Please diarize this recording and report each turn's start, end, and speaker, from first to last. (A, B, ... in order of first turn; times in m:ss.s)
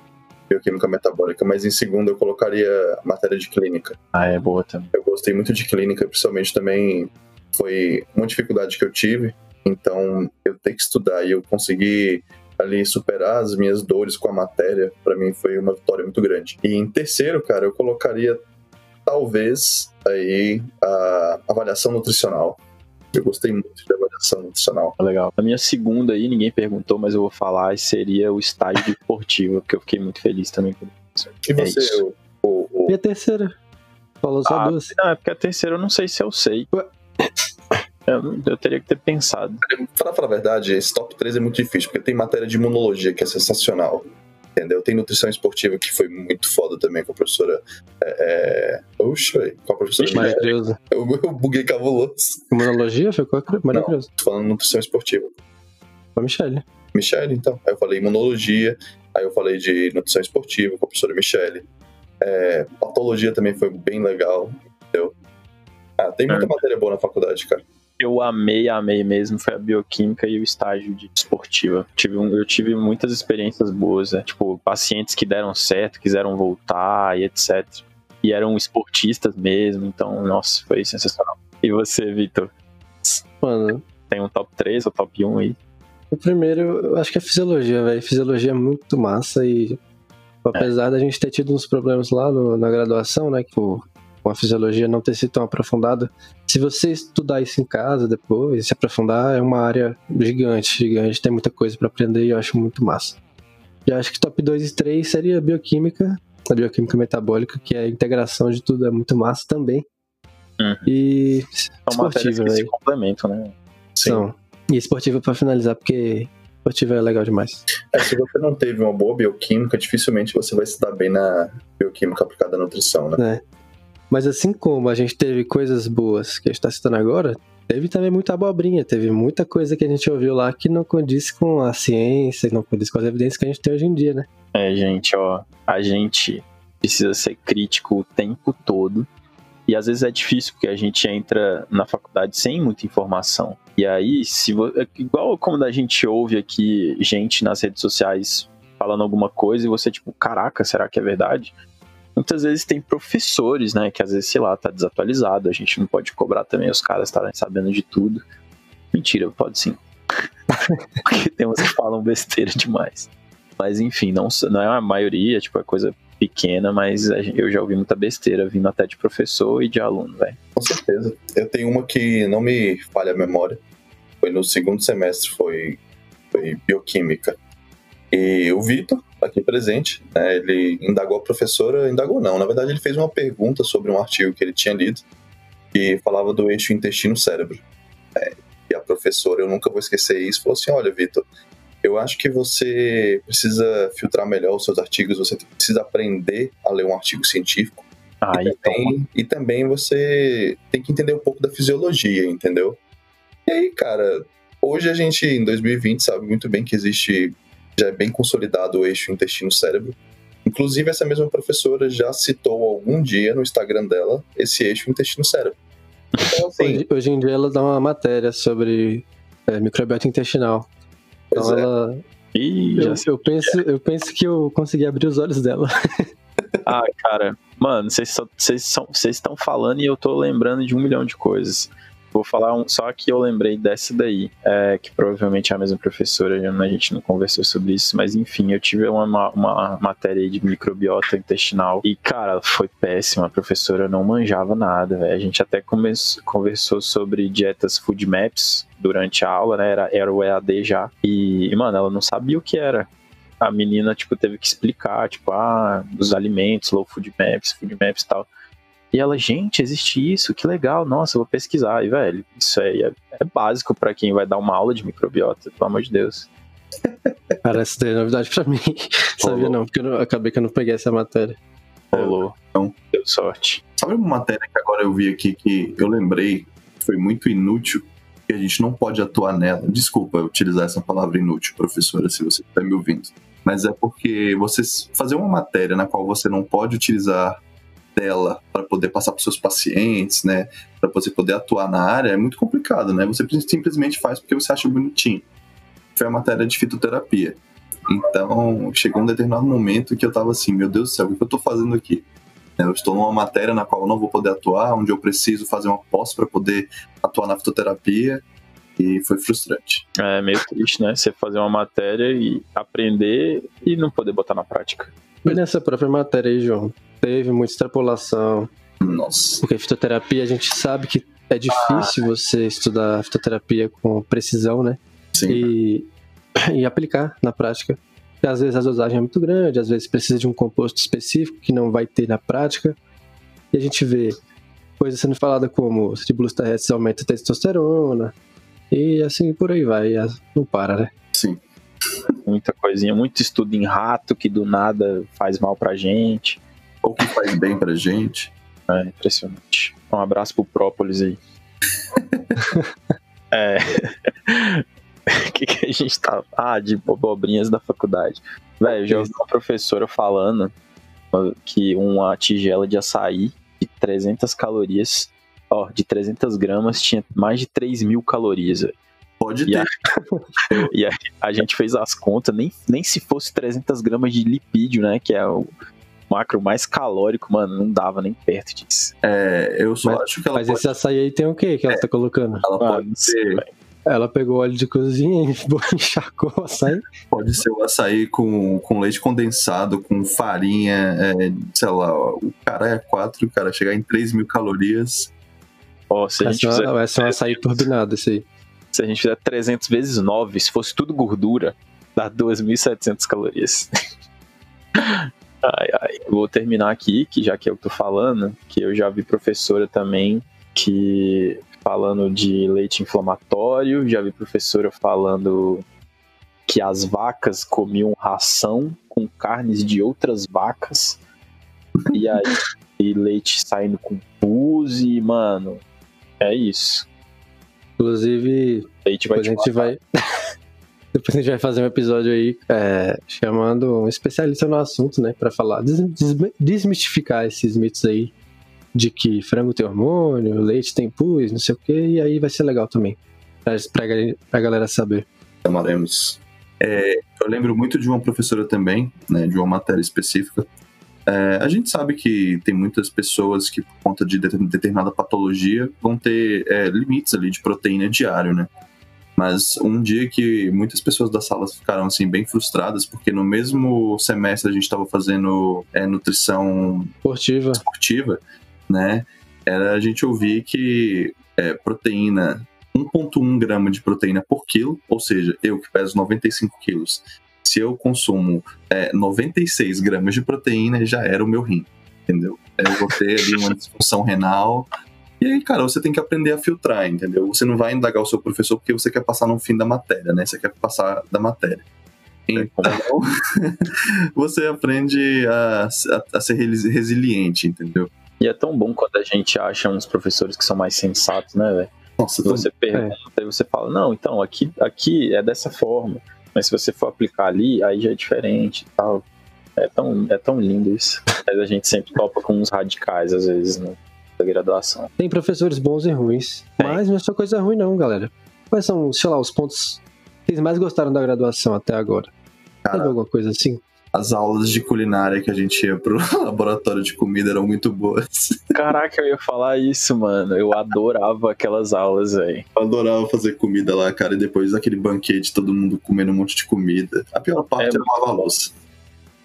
0:00.5-0:04.0 A
0:04.1-0:04.9 B
0:04.9-0:18.4 A
0:19.0-0:22.6 A
0:23.1-0:25.0 A
0:25.0-0:32.0 B
0:31.5-0:33.0 A
0:32.9-0:33.6 C
0:34.2-0:34.9 C
0:34.4-0:36.7 B
0:36.7-0:37.3 C
0:38.1-0:39.6 B
0:39.6-0:52.5 A
0:50.0-0:50.5 B
0:50.1-0:50.8 C
0:52.5-0:54.1 C
0:53.7-0:55.3 A
0:56.2-0:56.6 C
0:56.9-1:01.6 A
1:02.2-1:05.1 A
1:06.0-1:07.6 A
1:06.3-1:06.5 B
1:08.0-1:22.5 B
1:23.4-1:23.8 C
1:24.1-1:25.6 B
1:26.1-1:29.8 C
1:30.4-1:43.2 C
1:43.8-1:49.8 C
1:50.6-1:50.9 B
1:50.9-1:52.7 C
1:51.9-1:53.5 B
1:53.9-1:54.2 A
1:54.0-1:57.6 C
1:57.9-2:03.2 A
2:03.2-2:03.4 C
2:04.1-2:14.3 C
2:14.5-2:19.1 B
2:19.7-2:31.5 B
2:32.2-2:38.2 B
2:38.9-2:39.8 B
2:41.0-2:50.4 B
2:50.6-2:53.6 A
2:54.2-2:55.8 A
2:56.3-2:57.4 A
2:58.1-3:05.0 A
3:05.7-3:07.6 A
3:08.2-3:11.2 A
3:11.8-3:22.8 A
3:18.2-3:18.9 B
3:23.5-3:35.6 A
3:36.2-3:36.8 A
3:36.6-3:40.7 C
3:41.3-3:41.7 A
3:41.3-3:42.0 C
3:42.3-3:43.5 B
3:42.8-3:46.0 C
3:46.6-4:12.9 B
4:13.4-4:18.3 B
4:18.9-4:26.3 B
4:26.8-4:27.4 A
4:27.4-4:31.4 C
4:29.2-4:29.6 A
4:31.9-4:32.4 B
4:31.9-4:32.8 A
4:32.9-4:33.6 B
4:33.8-4:47.4 A
4:47.9-4:55.2 A
4:55.9-5:02.0 A
5:02.6-5:08.2 A
5:08.8-5:09.8 A
5:10.0-5:15.3 B
5:15.2-5:18.5 C
5:18.8-5:19.4 A
5:19.4-5:32.8 C
5:21.5-5:21.9 B
5:25.1-5:25.5 A
5:33.5-5:34.2 C
5:34.8-5:38.1 C
5:38.7-5:40.9 C
5:41.1-5:41.4 A
5:42.2-5:46.4 B
5:46.8-5:48.3 A
5:48.7-5:51.2 B
5:51.9-5:52.4 A
5:53.3-6:00.5 B
6:01.1-6:08.8 B
6:09.2-6:09.7 A
6:10.6-6:15.5 B
6:16.1-6:18.9 B
6:19.0-6:20.8 A
6:19.8-6:22.4 C
6:22.4-6:23.4 A
6:22.6-6:23.5 B
6:23.9-6:26.8 C
6:27.1-6:35.1 A
6:35.9-6:37.6 B
6:36.2-6:38.2 C
6:38.7-6:43.7 B
6:44.8-6:55.6 B
6:56.5-7:01.0 B
7:01.8-7:02.3 A
7:01.9-7:05.6 B
7:06.2-7:06.8 B
7:07.8-7:09.8 C
7:08.8-7:09.7 B
7:10.9-7:18.1 C
7:18.7-7:25.1 C
7:25.4-7:30.5 A
7:31.1-7:38.5 A
7:39.2-7:46.9 A
7:47.0-7:47.6 C
7:47.6-8:04.7 A
8:05.2-8:11.6 A
8:12.3-8:17.9 A
8:12.4-8:12.9 B
8:18.2-8:21.7 B
8:22.0-8:22.5 A
8:22.2-8:29.0 B
8:29.6-8:34.9 B
8:35.0-8:42.1 C
8:42.6-8:42.9 A
8:42.7-8:43.6 C
8:43.9-8:48.6 A
8:48.5-8:52.4 B
8:52.6-8:58.5 A
8:57.6-8:57.9 B